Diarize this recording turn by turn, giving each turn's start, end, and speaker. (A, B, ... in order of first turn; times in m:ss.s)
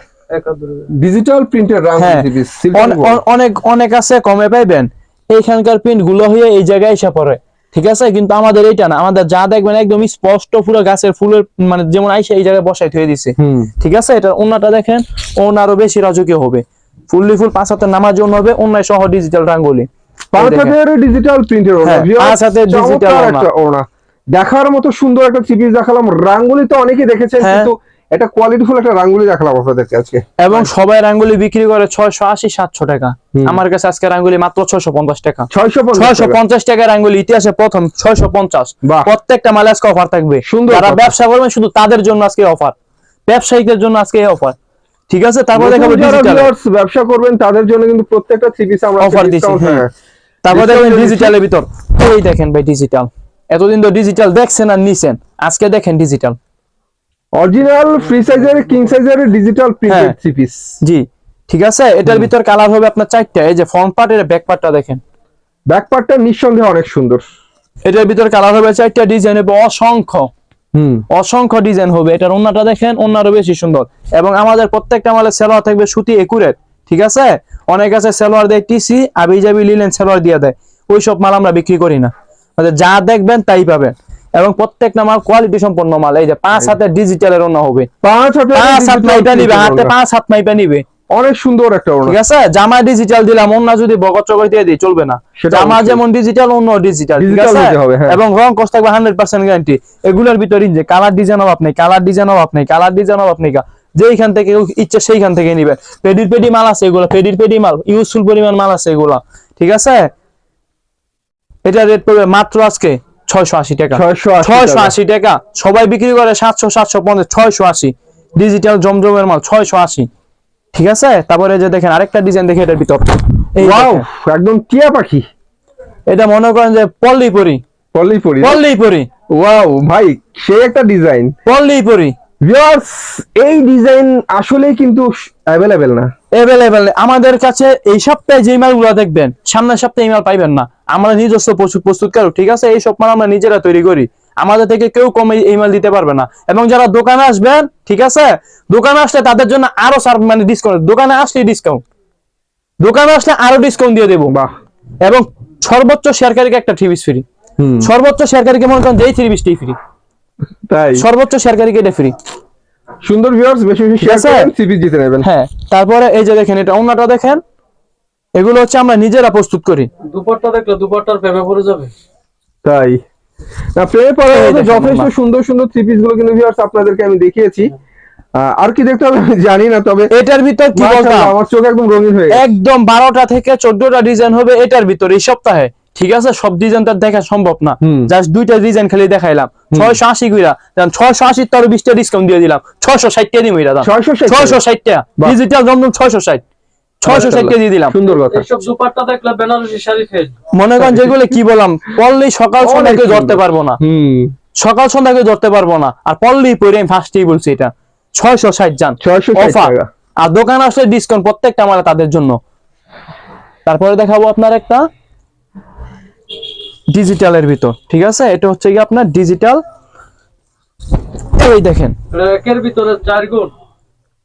0:00.3-0:00.9 A
0:01.0-0:03.2 B
0:02.0-0:20.7 C
0:13.4-0:13.7 B
0:20.3-0:30.7 B
0:21.8-0:23.5 C
0:27.4-0:27.7 C
0:30.4-0:42.7 C
0:35.5-0:36.4 B
0:38.8-0:39.1 B
0:40.4-0:41.1 B
0:43.3-0:44.6 C
0:45.1-0:46.5 C
0:45.5-0:49.9 B
0:49.0-0:49.8 C
0:50.4-0:56.4 C
0:50.5-0:51.3 B
0:57.4-1:00.7 B
0:59.9-1:00.1 C
1:00.8-1:05.0 C
1:05.7-1:07.2 B
1:07.8-1:10.3 C
1:10.7-1:11.0 B
1:11.1-1:27.9 C
1:28.0-1:29.9 B
1:28.5-1:30.8 C
1:31.1-1:32.2 B
1:32.0-1:50.1 C
1:35.4-1:36.0 B
1:37.2-1:38.2 B
1:51.6-2:00.1 C
1:53.9-1:54.9 B
2:00.7-2:04.0 C
2:03.6-2:05.2 B
2:06.1-2:07.6 C
2:07.9-2:08.6 B
2:08.4-2:09.1 C
2:09.3-2:11.3 B
2:11.4-2:12.1 C
2:12.4-2:16.1 B
2:16.3-2:31.8 C
2:32.8-2:34.3 C
2:35.0-2:37.2 C
2:37.6-2:37.9 B
2:37.8-2:39.7 C
2:40.7-2:41.0 B
2:41.0-2:42.1 C
2:43.0-2:45.2 B
2:44.0-2:44.5 C
2:45.2-2:47.4 C
2:48.4-2:49.9 C
2:50.1-2:51.9 A
2:52.6-2:53.0 B
2:53.7-2:57.7 B
2:54.3-2:55.1 C
2:58.4-3:00.1 B
3:00.1-3:01.3 C
3:00.7-3:02.4 B
3:02.3-3:16.4 C
3:07.8-3:08.1 B
3:09.7-3:10.0 B
3:13.8-3:14.6 B
3:17.0-3:17.9 C
3:17.0-3:18.4 B
3:18.0-3:20.3 A
3:20.5-3:23.8 C
3:20.8-3:21.3 B
3:22.6-3:24.3 B
3:24.6-3:32.4 C
3:29.0-3:29.9 B
3:33.6-3:34.8 C
3:36.9-3:39.6 C
3:41.4-3:41.9 C
3:42.1-3:43.5 A